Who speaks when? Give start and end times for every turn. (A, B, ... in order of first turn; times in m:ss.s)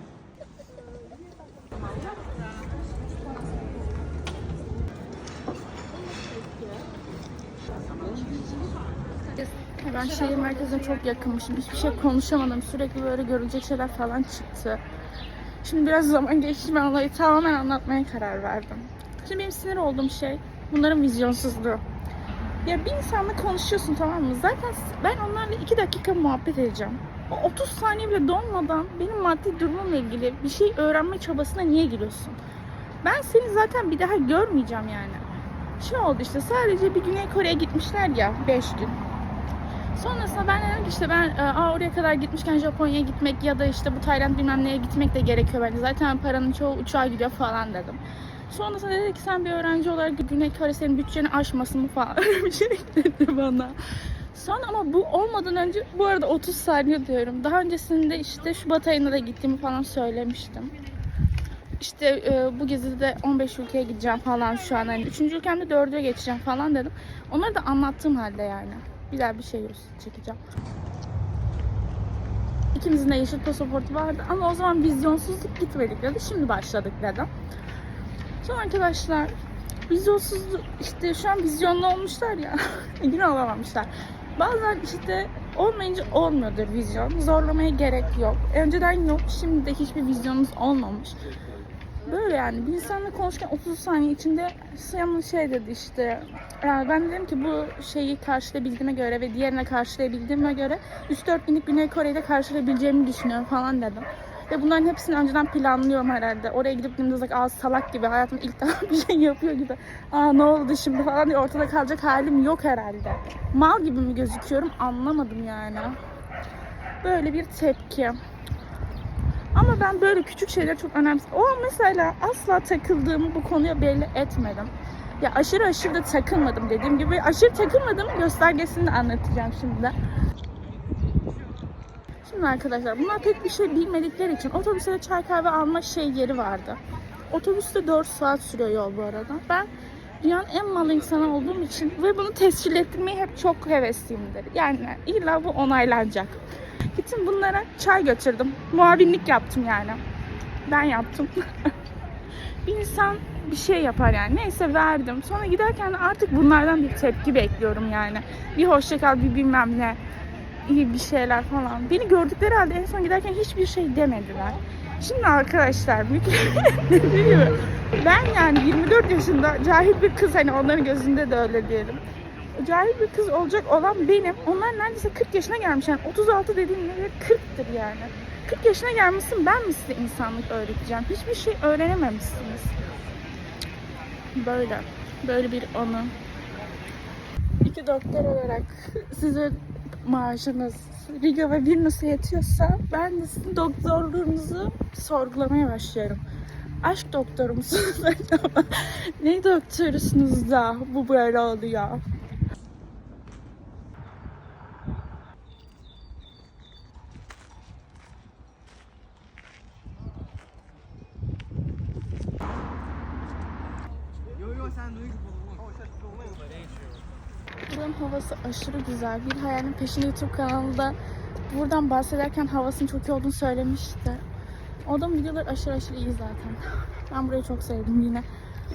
0:09.6-0:14.8 A
0:15.6-0:21.8 A
0:22.6-0:32.4 A
0:33.0-0:35.2 A
0:35.8-0:39.0 A
0:39.9-0:53.8 A
0:54.3-1:00.7 A
1:01.8-1:10.4 A
1:12.7-1:17.3 A
1:18.4-1:19.3 A
1:19.9-1:31.2 A
1:32.0-1:56.0 A
1:57.0-1:58.2 A
1:59.5-2:10.0 A
2:12.2-2:19.7 A
2:20.2-2:30.0 A
2:30.6-2:31.7 A
2:32.6-2:40.0 A
2:40.6-2:52.0 A
2:52.5-3:02.8 A
3:04.3-3:06.1 A
3:07.6-3:16.2 A
3:16.8-3:22.0 A
3:37.7-3:41.0 A
3:41.5-3:44.2 A
3:44.8-3:48.3 A